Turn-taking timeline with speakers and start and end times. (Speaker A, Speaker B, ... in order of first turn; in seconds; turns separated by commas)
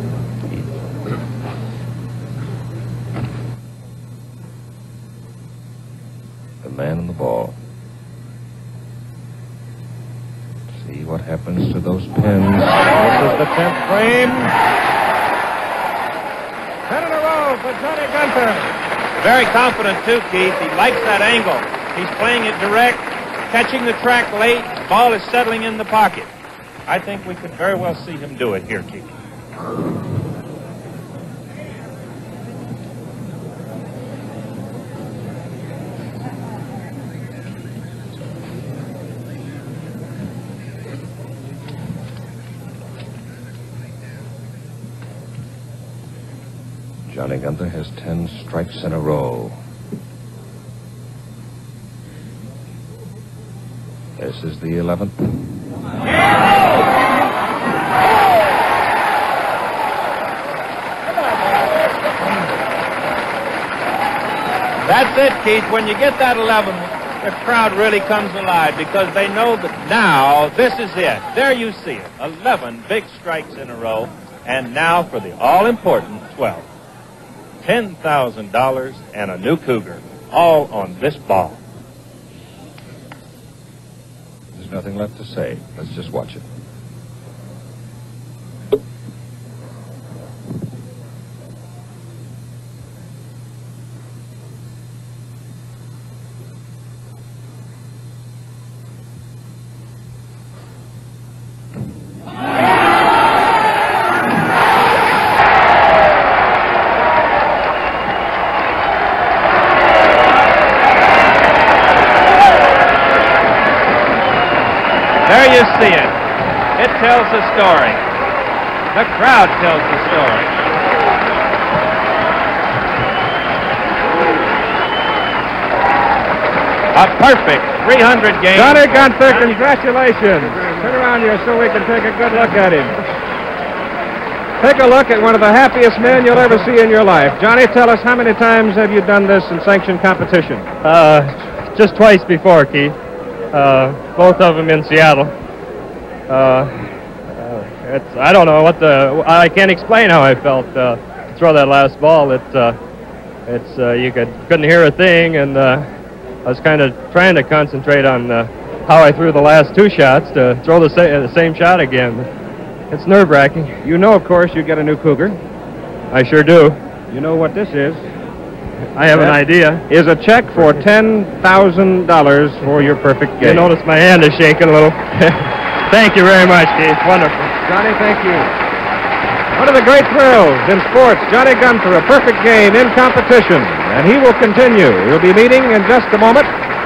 Speaker A: 6.6-7.6, Speaker A: 10.7-12.9, Speaker B: 12.9-14.5, Speaker B: 16.9-18.7, Speaker C: 19.2-26.3, Speaker C: 26.9-29.0, Speaker A: 47.1-49.6, Speaker A: 54.2-55.4, Speaker C: 64.8-76.7, Speaker C: 77.6-81.6, Speaker A: 84.5-86.5, Speaker C: 115.2-116.2, Speaker C: 116.8-118.0, Speaker C: 118.9-120.5, Speaker C: 126.9-129.3, Speaker B: 128.5-133.0, Speaker B: 134.6-140.7, Speaker D: 140.8-143.0, Speaker D: 143.5-145.3, Speaker D: 146.3-152.8, Speaker D: 153.4-155.9, Speaker D: 156.4-162.3, Speaker D: 162.9-163.8, Speaker B: 163.8-165.4, Speaker D: 166.1-166.8, Speaker B: 167.1-168.0, Speaker D: 168.9-169.8, Speaker B: 169.1-173.7, Speaker D: 173.4-177.5, Speaker B: 177.7-178.5, Speaker B: 179.5-186.5